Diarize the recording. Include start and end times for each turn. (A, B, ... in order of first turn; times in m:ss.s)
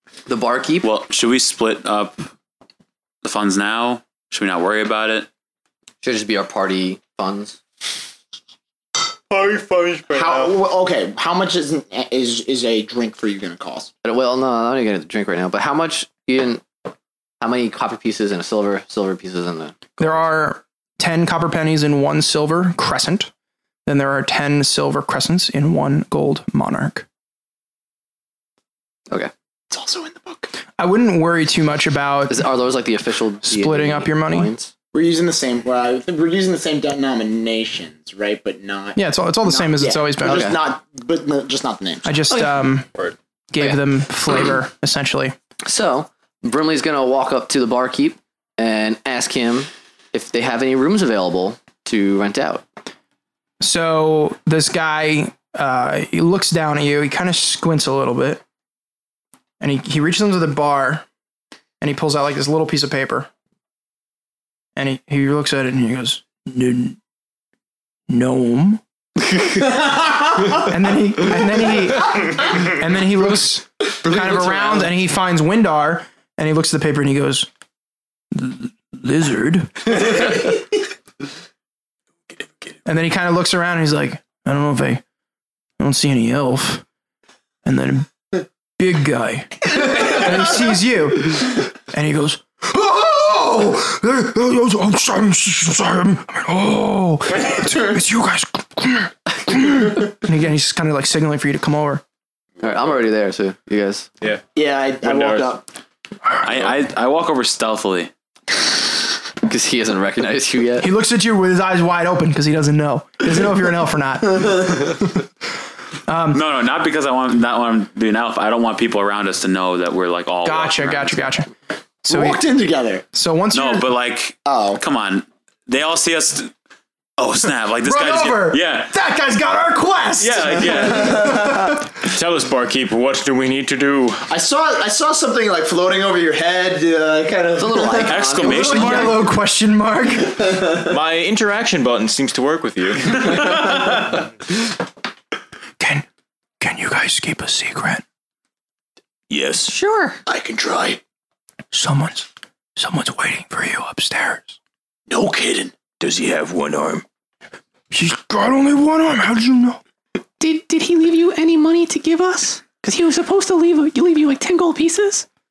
0:00.3-0:00.9 A
0:00.8-0:02.3 B
0:03.2-0:05.3 B
0:06.0-0:07.6 A
0:09.3-0:10.6 C
0:10.1-0:13.9 D
0:14.0-0:16.6 A
0:17.4-0:20.2 A
0:20.0-0:23.3 E
0:23.8-0:27.0 E
0:29.7-0:30.5 D
0:30.8-0:32.5 E
0:32.3-0:34.7 A
0:33.4-0:34.5 E
0:34.9-0:42.2 D
0:39.0-0:40.6 E
0:40.2-0:40.6 A
0:42.0-0:42.9 E
0:43.5-0:45.4 E
0:45.6-0:52.6 A
0:53.6-0:58.4 E
0:59.6-1:01.0 E
1:01.8-1:03.3 E
1:04.8-1:07.0 E
1:08.1-1:08.8 E
1:10.6-1:17.5 E
1:14.0-1:14.9 A
1:18.3-1:20.4 E
1:22.3-1:22.8 F
1:22.8-1:25.0 E
1:25.8-1:26.8 E
1:27.6-1:28.1 E
1:28.8-1:42.0 E
1:42.6-1:44.1 A
1:44.5-1:45.6 D
1:45.0-1:45.5 C
1:46.4-1:48.1 B
1:49.5-1:50.9 A
1:50.8-1:55.0 E
1:56.1-1:56.4 E
1:56.3-2:01.2 B
2:00.4-2:01.5 E
2:02.0-2:02.4 E
2:02.1-2:03.0 D
2:03.1-2:03.8 E
2:03.5-2:06.5 B
2:04.4-2:04.8 D
2:07.2-2:08.9 B
2:07.8-2:11.8 E
2:10.2-2:11.1 B
2:10.5-2:10.9 C
2:11.0-2:11.7 D
2:12.1-2:14.2 C
2:14.3-2:18.2 D
2:17.6-2:19.2 A
2:18.0-2:19.2 B
2:18.4-2:20.4 E
2:20.3-2:20.9 D
2:20.9-2:23.6 C
2:25.8-2:26.0 E
2:26.6-2:28.0 E
2:29.3-2:29.7 F
2:29.6-2:30.2 G
2:30.3-2:31.0 D
2:31.7-2:34.6 E
2:35.1-2:35.7 D
2:35.2-2:37.0 F
2:37.9-2:39.8 E
2:40.4-2:45.2 G